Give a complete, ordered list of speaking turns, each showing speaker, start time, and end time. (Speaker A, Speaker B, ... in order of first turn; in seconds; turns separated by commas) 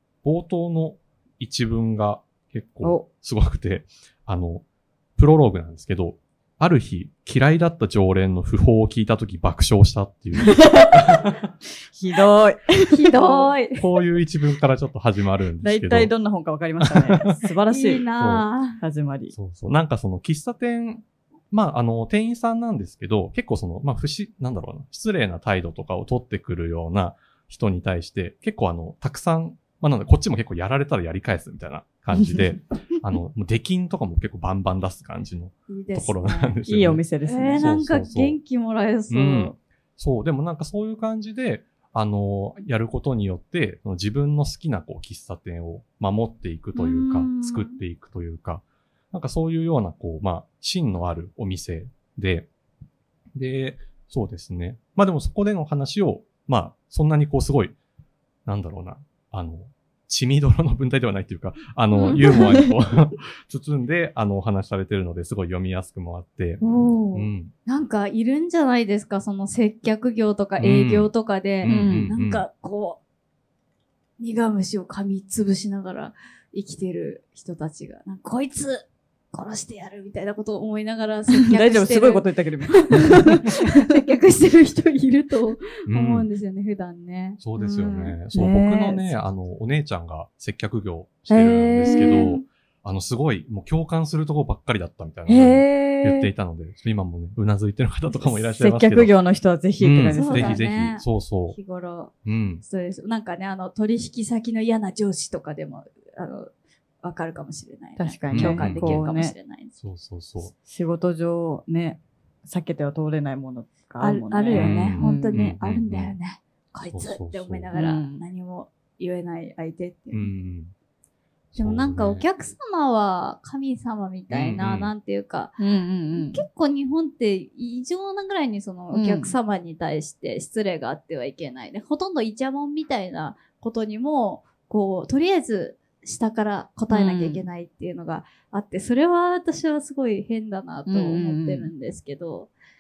Speaker A: 0.2-4.7, Speaker B: 2.8-3.1, Speaker A: 5.2-11.5, Speaker B: 10.4-11.0, Speaker B: 11.9-13.5, Speaker C: 12.9-13.8, Speaker A: 13.8-16.1, Speaker B: 15.6-18.1, Speaker A: 16.8-17.2, Speaker C: 17.3-18.8, Speaker A: 18.2-18.5, Speaker B: 18.8-19.3, Speaker A: 19.3-37.0, Speaker C: 35.7-36.6, Speaker B: 36.7-37.6, Speaker C: 37.2-39.5, Speaker A: 37.6-38.4, Speaker A: 39.1-52.5, Speaker C: 46.8-47.8, Speaker A: 53.3-57.8, Speaker A: 58.5-66.6, Speaker C: 61.9-62.4, Speaker B: 62.1-62.7, Speaker B: 66.6-67.2, Speaker C: 66.9-73.0, Speaker A: 67.1-67.5, Speaker A: 70.6-72.4, Speaker B: 71.7-72.1, Speaker C: 74.2-88.2, Speaker B: 81.4-83.6, Speaker A: 85.9-86.3, Speaker A: 87.4-99.2, Speaker B: 88.3-89.2, Speaker B: 91.3-92.3, Speaker C: 91.8-92.5, Speaker B: 95.3-96.3, Speaker B: 98.6-100.6, Speaker A: 99.8-101.6, Speaker C: 100.1-106.5, Speaker A: 102.2-102.6, Speaker C: 107.0-109.7, Speaker B: 108.0-109.3, Speaker A: 108.3-109.1, Speaker A: 109.8-110.5, Speaker B: 110.7-115.6, Speaker C: 114.0-120.3, Speaker A: 114.5-116.2, Speaker A: 116.9-117.7, Speaker B: 117.7-118.2, Speaker A: 120.1-120.7, Speaker C: 121.5-125.6, Speaker A: 121.5-122.2, Speaker A: 124.3-124.9, Speaker B: 125.6-126.5, Speaker C: 126.1-142.5, Speaker B: 128.9-129.3, Speaker B: 136.9-137.4, Speaker B: 140.9-141.7